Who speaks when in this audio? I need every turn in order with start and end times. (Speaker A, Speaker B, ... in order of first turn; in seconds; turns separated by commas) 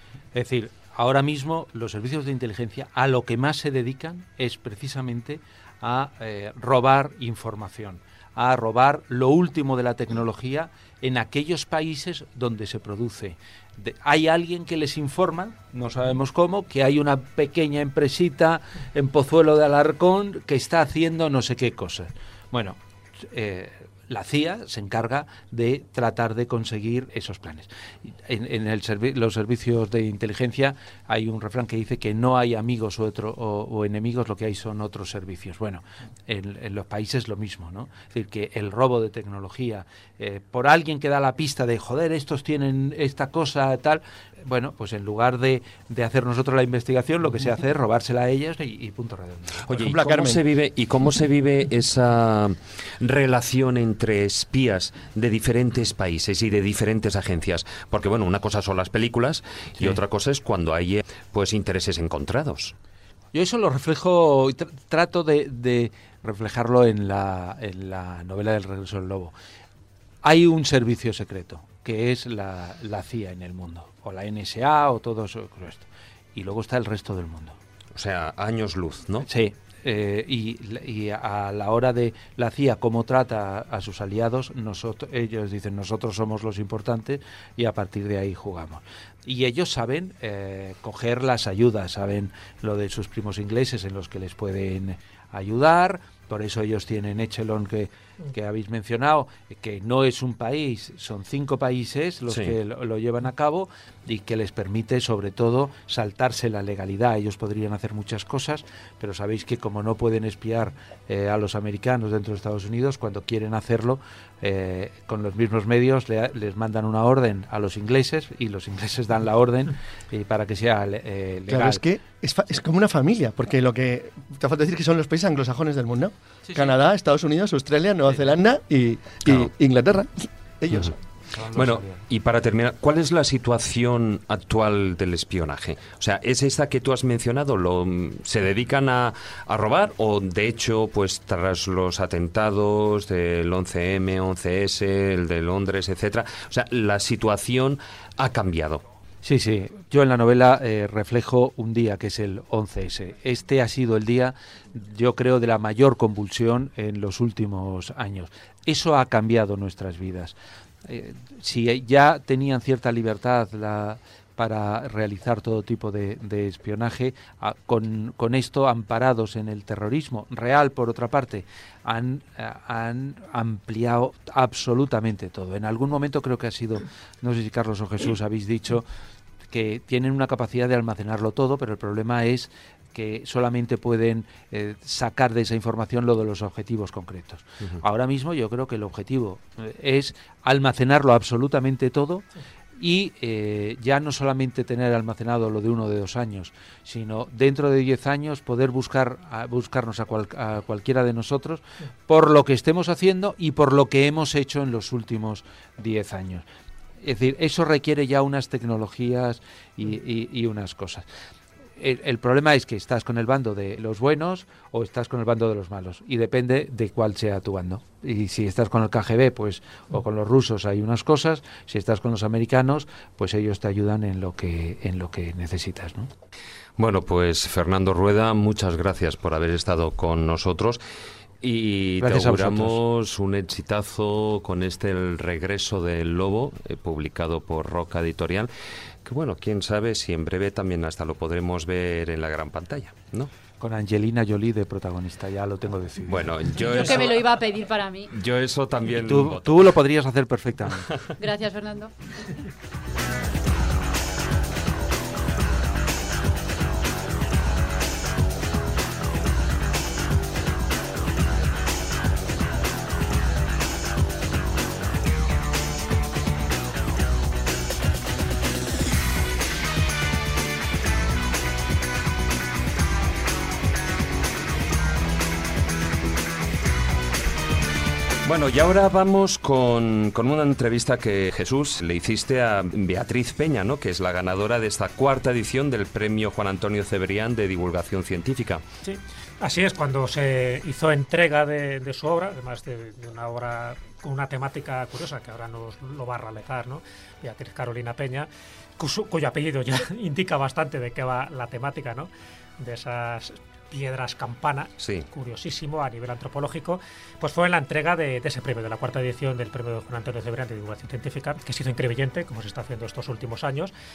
Speaker A: 0.3-49.7, Speaker B: 49.7-62.7, Speaker C: 49.7-50.4, Speaker A: 63.3-69.3, Speaker A: 70.2-77.6, Speaker B: 78.0-79.3, Speaker A: 79.2-121.8, Speaker B: 102.3-102.5, Speaker C: 121.5-130.9, Speaker A: 126.5-126.8, Speaker A: 128.1-128.3, Speaker A: 131.3-132.0, Speaker B: 131.5-148.8, Speaker A: 149.2-178.9, Speaker A: 179.5-192.2, Speaker A: 192.8-206.4, Speaker A: 207.0-211.1, Speaker A: 211.8-226.1, Speaker B: 226.8-230.8, Speaker B: 231.4-238.5, Speaker A: 232.0-232.8, Speaker B: 239.1-243.3, Speaker A: 243.6-246.7, Speaker B: 246.1-247.3, Speaker D: 246.7-248.1, Speaker B: 248.1-249.7, Speaker A: 248.9-250.9, Speaker D: 251.2-251.9, Speaker B: 278.2-288.6, Speaker E: 288.9-313.7, Speaker B: 304.8-305.1